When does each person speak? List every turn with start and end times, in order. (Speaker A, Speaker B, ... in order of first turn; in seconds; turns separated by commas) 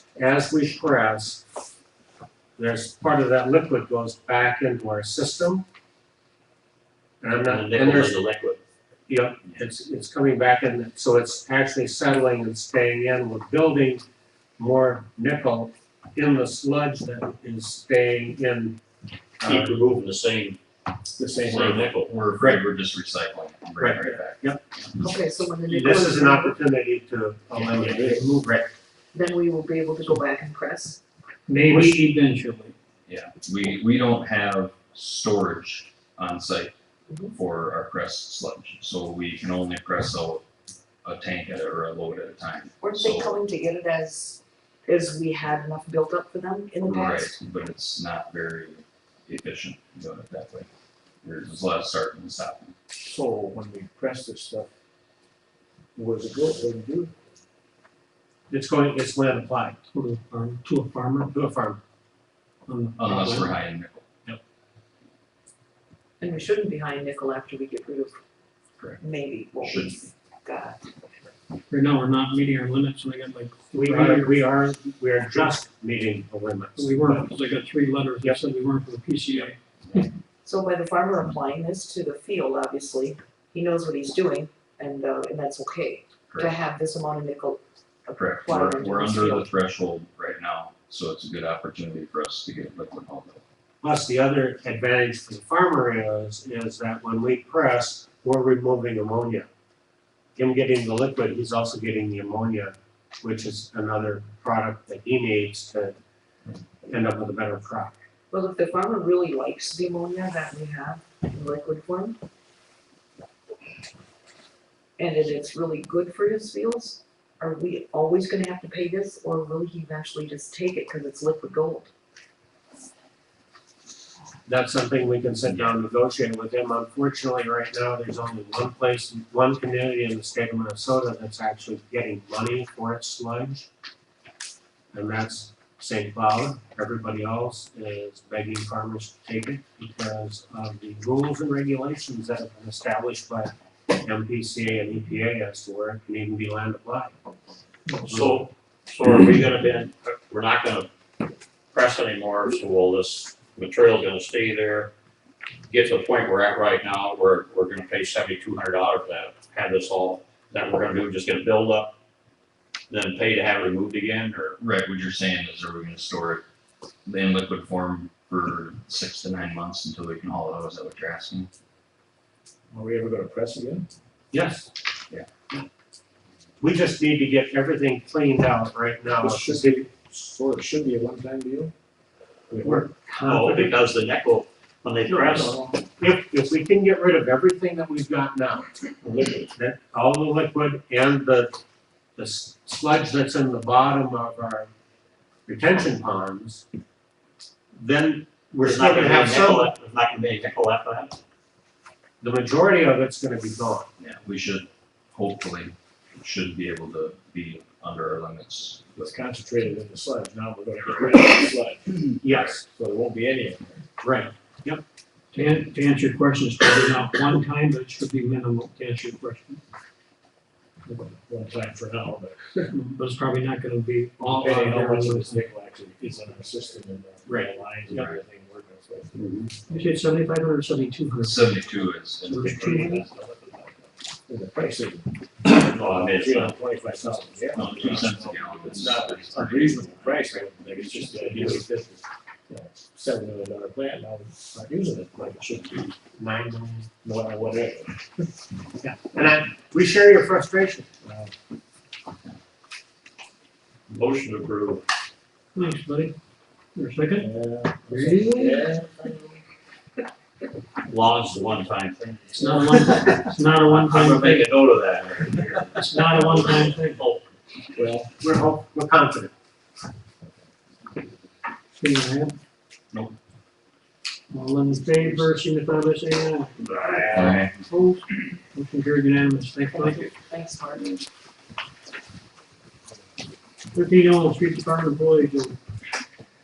Speaker A: 0.1-1.4, Speaker A: 2.6-5.6, Speaker A: 7.2-8.2, Speaker B: 7.4-8.6, Speaker A: 9.1-14.0, Speaker A: 14.6-18.8, Speaker B: 19.4-20.6, Speaker A: 19.4-19.7, Speaker C: 21.2-21.9, Speaker D: 21.4-25.1, Speaker B: 21.5-22.1, Speaker A: 23.8-24.6, Speaker E: 24.9-26.6, Speaker A: 25.7-28.7, Speaker E: 29.1-31.0, Speaker F: 31.5-32.7, Speaker A: 31.6-32.0, Speaker D: 33.0-36.7, Speaker E: 37.1-37.3, Speaker D: 37.3-40.4, Speaker D: 41.0-43.4, Speaker E: 42.8-47.4, Speaker D: 46.8-50.7, Speaker D: 51.2-52.7, Speaker C: 53.0-54.7, Speaker C: 56.0-57.2, Speaker A: 58.5-59.8, Speaker F: 59.9-61.3, Speaker A: 61.3-61.8, Speaker F: 62.7-63.5, Speaker D: 63.0-64.0, Speaker E: 66.2-68.2, Speaker E: 69.0-70.8, Speaker D: 69.5-70.0, Speaker F: 71.7-74.5, Speaker A: 73.7-77.3, Speaker F: 76.8-80.0, Speaker E: 80.4-89.5, Speaker D: 86.3-86.6, Speaker D: 88.1-93.4, Speaker A: 93.8-99.5, Speaker A: 100.3-106.0, Speaker A: 106.9-108.0, Speaker E: 108.3-112.2, Speaker E: 115.0-121.9, Speaker A: 124.5-133.7, Speaker D: 125.5-125.7, Speaker A: 134.9-147.1, Speaker B: 148.1-150.9, Speaker B: 151.7-154.9, Speaker B: 155.7-161.9, Speaker B: 162.9-164.6, Speaker D: 164.6-166.4, Speaker D: 167.1-171.5, Speaker C: 172.7-173.9, Speaker A: 174.3-174.7, Speaker A: 176.6-179.9, Speaker C: 179.2-181.7, Speaker C: 182.5-182.9, Speaker A: 182.6-183.8, Speaker B: 183.2-185.6, Speaker A: 185.1-188.7, Speaker C: 185.3-185.8, Speaker C: 189.0-189.5, Speaker A: 189.5-191.6, Speaker A: 192.2-194.7, Speaker A: 195.5-196.6, Speaker A: 197.8-199.7, Speaker B: 198.6-201.2, Speaker A: 202.2-203.9, Speaker D: 204.0-209.1, Speaker C: 208.9-213.8, Speaker A: 212.2-212.6, Speaker A: 214.0-214.8, Speaker F: 215.3-219.6, Speaker C: 220.9-222.7, Speaker F: 222.7-225.4, Speaker C: 224.2-229.9, Speaker A: 227.3-227.5, Speaker D: 227.9-228.2, Speaker A: 229.2-229.5, Speaker F: 229.7-231.6, Speaker D: 231.2-233.0, Speaker F: 232.2-233.0, Speaker C: 232.3-245.9, Speaker B: 235.4-236.6, Speaker B: 237.5-238.5, Speaker D: 237.5-240.1, Speaker B: 240.7-241.6, Speaker A: 246.2-246.9, Speaker C: 247.0-248.0, Speaker A: 248.8-250.9, Speaker C: 251.0-251.3, Speaker B: 253.9-254.8, Speaker F: 255.5-256.1, Speaker F: 256.8-257.3, Speaker C: 257.1-259.2, Speaker F: 257.9-258.6, Speaker B: 260.9-267.2, Speaker F: 262.3-264.4, Speaker F: 265.8-267.0, Speaker C: 267.7-268.1, Speaker A: 268.2-269.3, Speaker F: 271.8-272.4, Speaker F: 274.3-276.6, Speaker B: 276.6-277.4, Speaker D: 277.1-277.5, Speaker F: 277.2-278.0, Speaker F: 278.5-280.1, Speaker E: 279.7-281.0, Speaker F: 283.7-285.6